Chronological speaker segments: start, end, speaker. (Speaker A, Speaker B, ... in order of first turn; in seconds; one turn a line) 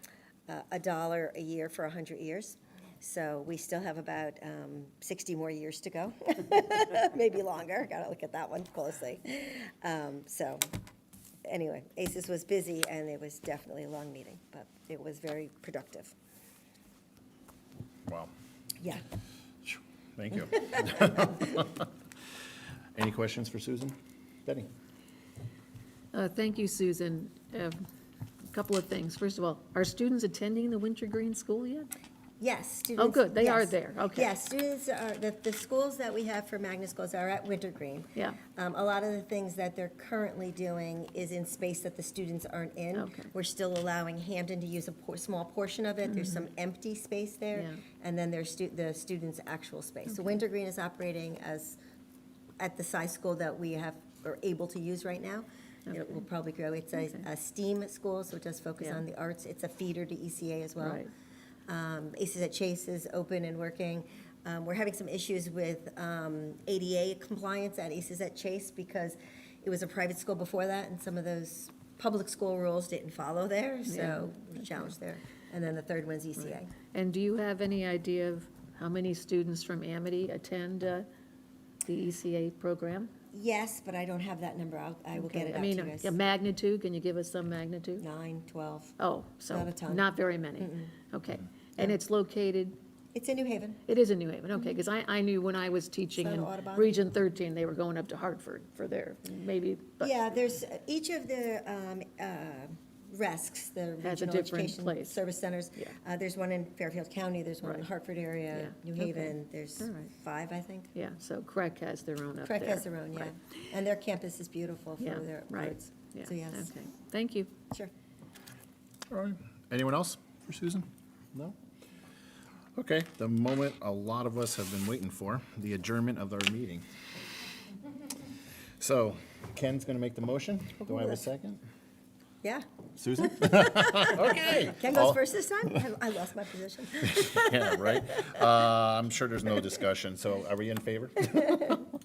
Speaker A: 0.5-10.7
Speaker A: 11.4-16.1
Speaker B: 19.6-21.9
Speaker B: 22.9-24.7
Speaker C: 26.1-27.8
Speaker C: 28.5-31.9
Speaker A: 32.4-51.8
Speaker C: 33.0-34.3
Speaker C: 42.9-43.3
Speaker C: 47.5-47.8
Speaker A: 52.6-61.0
Speaker C: 60.8-61.1
Speaker A: 61.7-76.7
Speaker C: 73.9-74.3
Speaker C: 76.9-81.1
Speaker C: 81.8-83.1
Speaker A: 83.3-86.2
Speaker C: 85.2-88.0
Speaker A: 88.0-89.0
Speaker C: 89.0-92.8
Speaker A: 89.5-90.9
Speaker A: 93.1-93.8
Speaker C: 93.9-100.3
Speaker A: 96.1-97.0
Speaker A: 100.0-110.9
Speaker C: 104.0-105.2
Speaker C: 108.5-110.1
Speaker C: 110.9-113.3
Speaker A: 112.5-116.7
Speaker C: 115.0-117.5
Speaker B: 119.1-121.5
Speaker B: 122.8-126.9
Speaker B: 128.8-131.6
Speaker B: 133.0-135.2
Speaker A: 133.3-138.3
Speaker B: 137.0-141.8